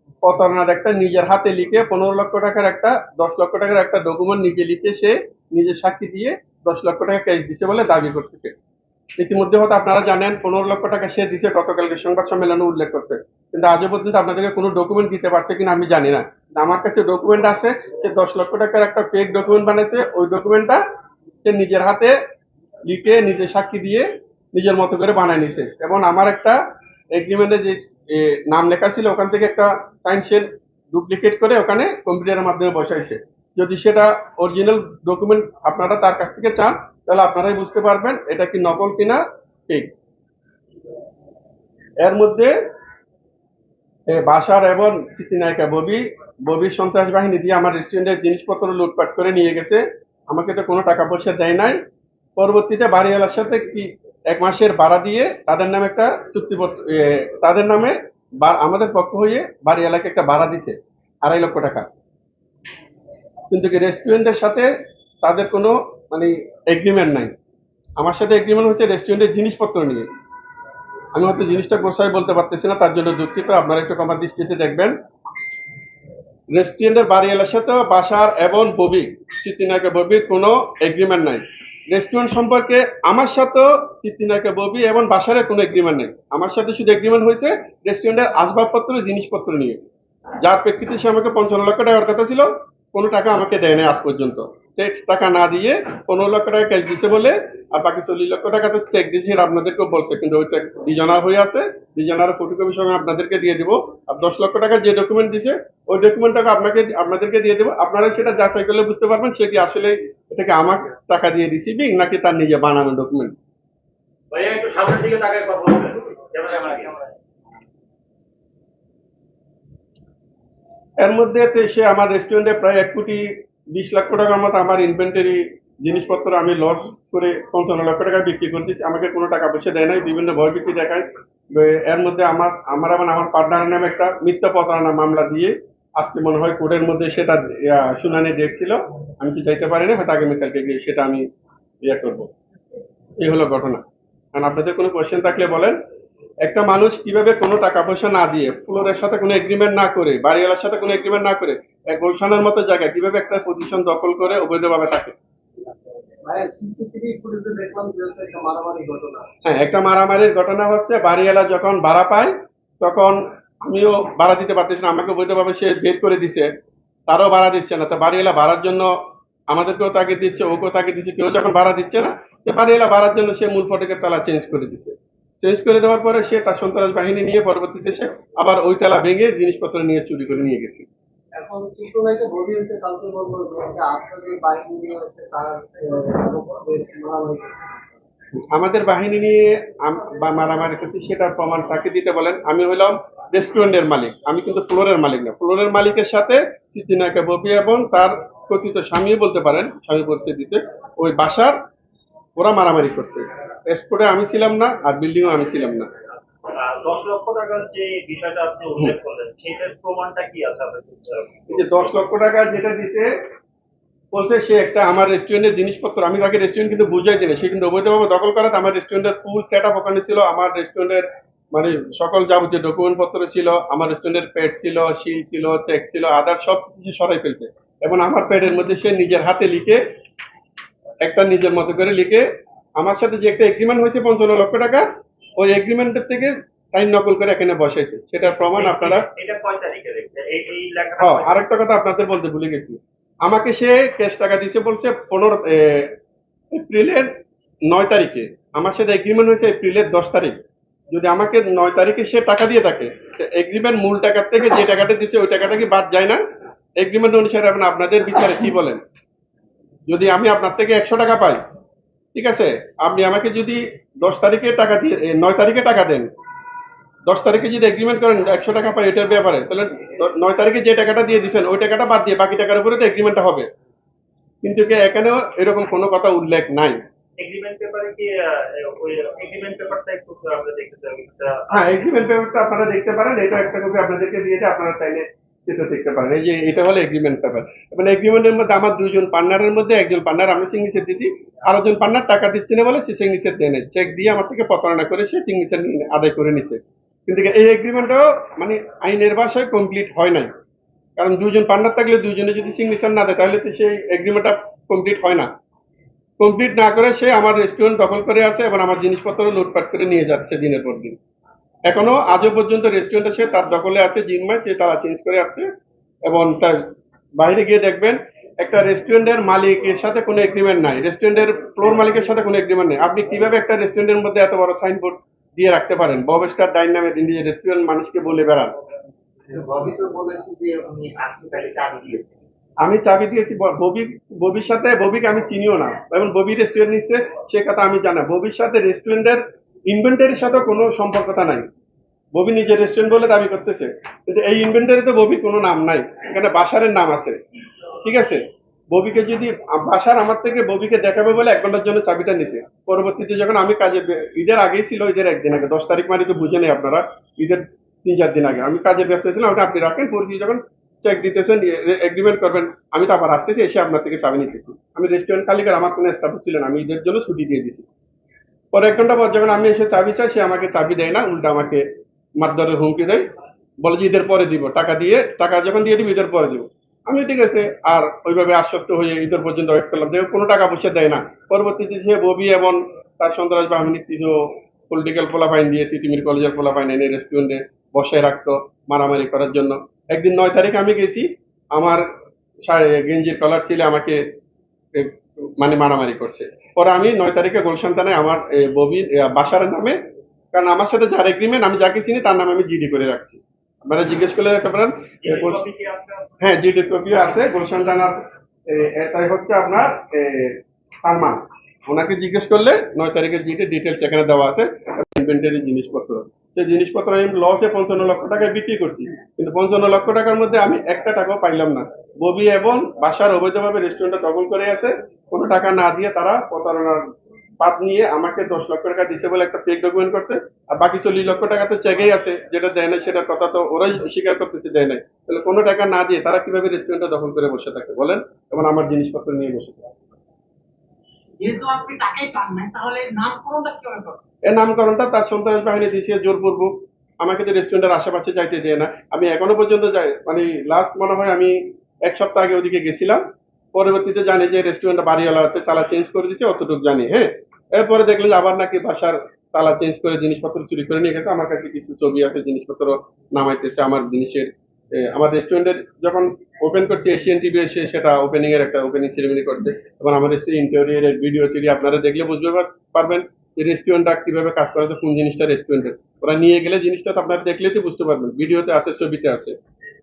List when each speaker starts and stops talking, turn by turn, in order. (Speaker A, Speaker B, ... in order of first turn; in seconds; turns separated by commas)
Speaker A: 0.2-8.5, Speaker A: 9.2-20.8, Speaker A: 21.4-22.1, Speaker A: 22.9-26.6, Speaker A: 27.1-39.9, Speaker A: 42.0-42.5, Speaker A: 44.1-51.8, Speaker A: 52.4-61.9, Speaker A: 63.5-64.7, Speaker A: 65.2-67.3, Speaker A: 68.0-70.0, Speaker A: 71.1-75.0, Speaker A: 76.5-89.8, Speaker A: 90.4-113.3, Speaker B: 114.3-117.1, Speaker A: 121.0-141.2, Speaker A: 141.8-142.3, Speaker A: 143.2-143.8, Speaker A: 144.3-145.8, Speaker A: 146.4-155.1, Speaker C: 156.2-159.3, Speaker A: 159.4-166.5, Speaker A: 167.1-168.9, Speaker A: 169.5-180.8, Speaker C: 181.4-187.9, Speaker A: 188.5-201.6, Speaker A: 202.4-205.9, Speaker B: 206.5-211.6, Speaker A: 211.5-213.1, Speaker A: 214.1-229.8, Speaker A: 231.0-232.2, Speaker A: 232.8-234.8, Speaker A: 235.4-239.1, Speaker B: 238.4-241.4, Speaker A: 241.0-245.9, Speaker A: 246.5-247.1, Speaker A: 247.7-250.3, Speaker A: 250.9-256.2, Speaker A: 256.8-258.8, Speaker A: 259.9-261.4, Speaker A: 262.1-266.1, Speaker A: 267.1-273.5, Speaker A: 274.4-276.8, Speaker B: 277.2-282.0, Speaker A: 281.5-300.3, Speaker A: 301.0-305.3, Speaker A: 306.2-310.9, Speaker A: 311.7-315.4, Speaker A: 316.1-316.6, Speaker A: 317.2-328.5, Speaker C: 329.3-332.0, Speaker A: 332.6-341.4, Speaker A: 342.1-347.2, Speaker A: 347.8-348.2, Speaker A: 348.7-367.6, Speaker A: 368.5-371.6, Speaker A: 372.2-373.0, Speaker A: 373.6-391.9, Speaker A: 392.4-394.0, Speaker A: 394.7-399.8, Speaker A: 400.3-405.4, Speaker B: 405.0-406.2, Speaker A: 406.2-426.9, Speaker A: 427.4-439.7, Speaker D: 441.2-444.0, Speaker A: 444.2-453.0, Speaker A: 453.5-479.4